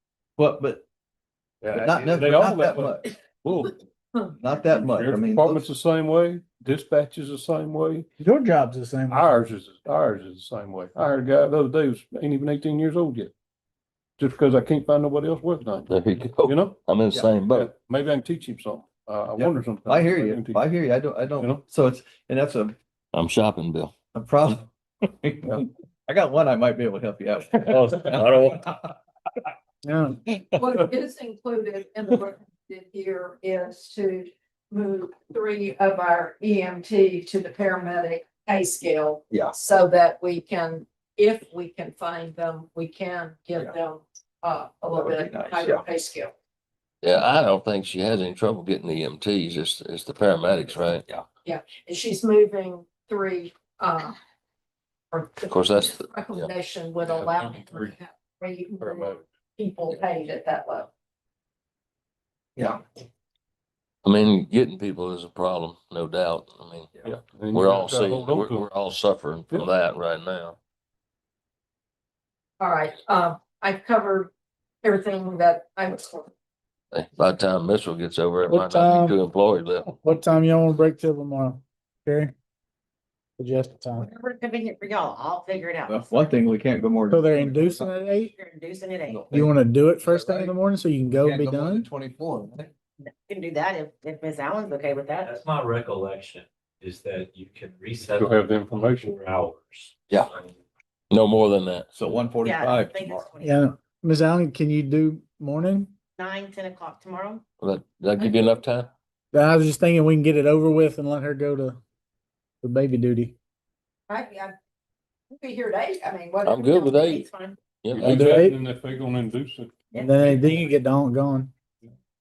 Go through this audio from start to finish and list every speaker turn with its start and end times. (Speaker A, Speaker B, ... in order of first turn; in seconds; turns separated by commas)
Speaker A: 0.4-0.8, Speaker B: 1.6-3.8, Speaker A: 1.7-3.1, Speaker A: 4.4-5.7, Speaker B: 4.8-8.1, Speaker C: 8.2-9.2, Speaker B: 9.1-13.3, Speaker B: 14.2-16.8, Speaker D: 15.9-17.7, Speaker B: 17.5-20.7, Speaker A: 19.4-22.8, Speaker B: 21.3-21.6, Speaker D: 23.1-23.9, Speaker A: 24.1-28.9, Speaker D: 27.6-28.7, Speaker C: 29.8-30.2, Speaker E: 30.6-46.3, Speaker A: 39.3-39.5, Speaker A: 44.9-45.8, Speaker D: 47.0-51.0, Speaker E: 51.4-54.1, Speaker E: 55.1-60.9, Speaker D: 55.5-56.5, Speaker B: 57.0-57.9, Speaker B: 58.8-59.2, Speaker D: 64.0-70.6, Speaker B: 67.0-68.7, Speaker E: 72.6-74.3, Speaker E: 74.8-76.3, Speaker D: 76.9-79.9, Speaker C: 78.5-79.2, Speaker C: 80.0-82.3, Speaker C: 83.4-84.1, Speaker F: 84.0-86.1, Speaker A: 85.9-87.9, Speaker C: 87.1-88.3, Speaker F: 88.2-89.3, Speaker A: 89.1-90.5, Speaker C: 89.3-91.9, Speaker A: 91.1-92.7, Speaker F: 93.0-95.3, Speaker G: 95.2-100.5, Speaker B: 98.2-99.2, Speaker D: 101.1-101.9, Speaker A: 101.9-103.3, Speaker F: 102.4-103.6, Speaker C: 103.4-105.9, Speaker F: 106.2-107.4, Speaker D: 107.6-108.9, Speaker C: 109.3-111.8, Speaker C: 112.6-113.3, Speaker E: 114.1-114.5, Speaker E: 115.3-117.0, Speaker D: 116.4-118.2, Speaker F: 117.0-117.6, Speaker B: 117.9-119.8, Speaker C: 118.0-118.6, Speaker F: 119.9-120.7, Speaker C: 120.0-121.5